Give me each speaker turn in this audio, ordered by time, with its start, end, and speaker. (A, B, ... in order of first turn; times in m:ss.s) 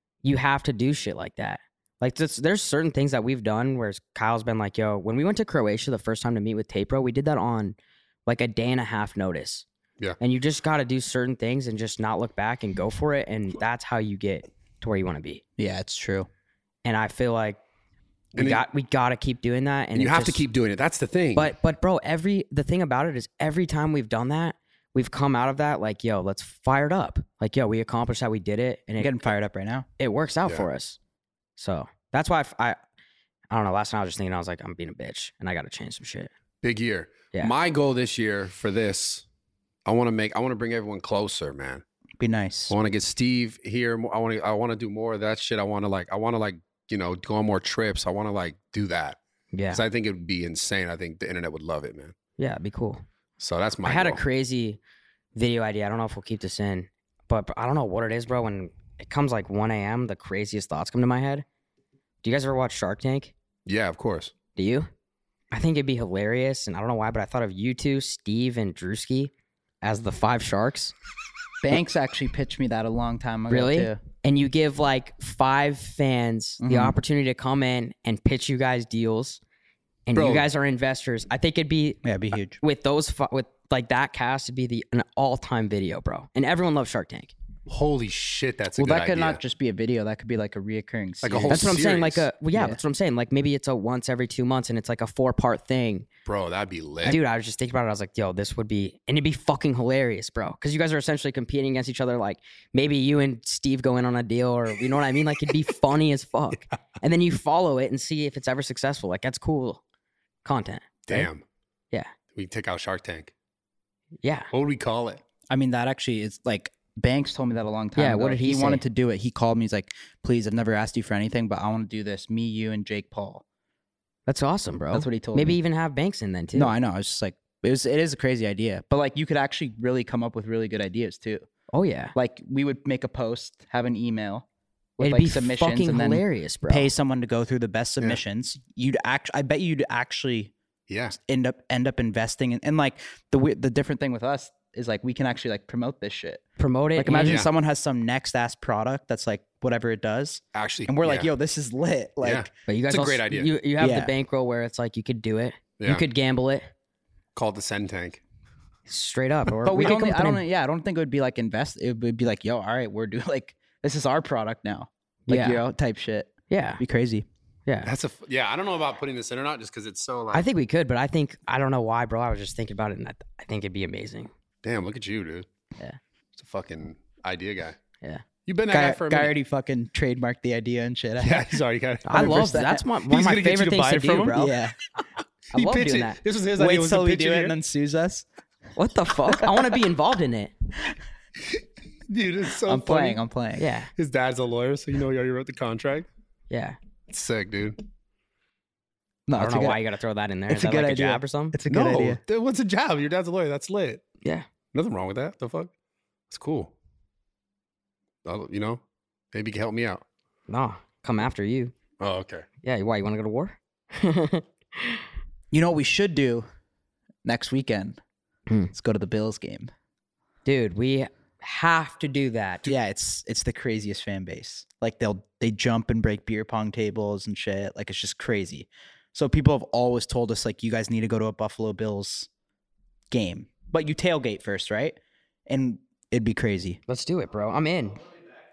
0:00.2-0:09.6 A
0:10.2-0:15.4 A
0:15.6-0:16.3 B
0:16.8-0:17.6 A
0:18.3-0:20.4 A
0:18.3-0:18.6 C
0:19.9-0:21.5 C
0:21.3-0:29.1 A
0:29.0-0:29.8 B
0:30.0-0:31.0 A
0:31.6-0:32.8 A
0:33.5-0:36.3 A
0:36.6-0:39.2 C
0:39.8-0:41.8 C
0:42.2-0:42.7 B
0:42.7-0:49.2 C
0:49.5-0:49.8 A
0:49.7-0:52.1 C
0:52.4-0:53.0 A
0:53.4-0:54.2 C
0:53.8-0:54.8 A
0:55.3-1:01.4 A
1:02.2-1:03.3 A
1:03.6-1:04.3 C
1:04.6-1:04.9 A
1:05.5-1:09.3 A
1:09.8-1:10.9 A
1:11.6-1:14.0 B
1:13.5-1:19.4 A
1:16.6-1:17.0 B
1:20.1-1:22.0 A
1:20.1-1:20.4 C
1:22.0-1:22.6 B
1:22.6-1:27.3 A
1:27.7-1:29.4 C
1:28.8-1:31.8 B
1:31.2-1:32.2 C
1:31.5-1:36.1 A
1:36.2-1:37.2 C
1:37.0-1:49.8 A
1:50.4-1:51.3 A
1:51.1-1:51.4 C
1:52.3-1:53.3 C
1:54.2-1:54.5 A
1:54.5-1:55.2 C
1:55.5-2:03.4 B
1:58.0-1:58.8 A
2:04.3-2:06.7 A
2:04.9-2:05.6 B
2:06.5-2:11.5 B
2:11.7-2:12.1 A
2:12.1-2:14.4 B
2:15.0-2:20.5 B
2:15.0-2:16.9 A
2:20.9-2:21.2 C
2:21.2-2:26.4 B
2:26.6-2:27.4 A
2:27.0-2:32.5 B
2:27.2-2:27.5 C
2:30.5-2:31.3 C
2:32.2-2:33.5 C
2:32.7-2:36.7 A
2:33.8-2:34.1 B
2:37.3-2:38.2 C
2:38.9-2:40.4 A
2:39.6-2:47.2 B
2:45.3-2:45.6 A
2:46.5-2:46.8 A
2:47.8-2:50.4 C
2:50.3-2:54.3 A
2:54.6-2:55.5 C
2:56.4-2:57.8 C
2:58.4-2:59.3 C
2:58.7-3:01.5 B
3:01.2-3:02.5 C
3:02.0-3:04.5 A
3:02.1-3:02.8 B
3:03.1-3:04.4 C
3:04.4-3:04.7 B
3:05.5-3:07.5 C
3:05.5-3:06.2 A
3:06.6-3:08.2 B
3:08.8-3:10.5 A
3:12.1-3:13.2 C
3:12.6-3:13.6 B
3:13.6-3:13.9 A
3:14.0-3:16.1 C
3:16.5-3:16.8 A
3:17.1-3:17.8 C
3:19.3-3:19.8 B
3:19.3-3:21.6 A
3:20.5-3:22.2 B
3:21.7-3:24.0 C
3:24.7-3:25.7 C
3:26.3-3:26.7 C
3:28.2-3:28.8 C
3:29.3-3:30.0 C
3:30.5-3:31.7 A
3:32.0-3:32.4 C
3:32.6-3:35.0 A
3:35.5-3:36.4 B
3:37.2-3:38.0 B
3:38.7-3:39.7 B
3:40.4-3:42.7 A
3:42.6-3:52.3 B
3:53.1-3:56.8 B
3:56.9-3:58.0 A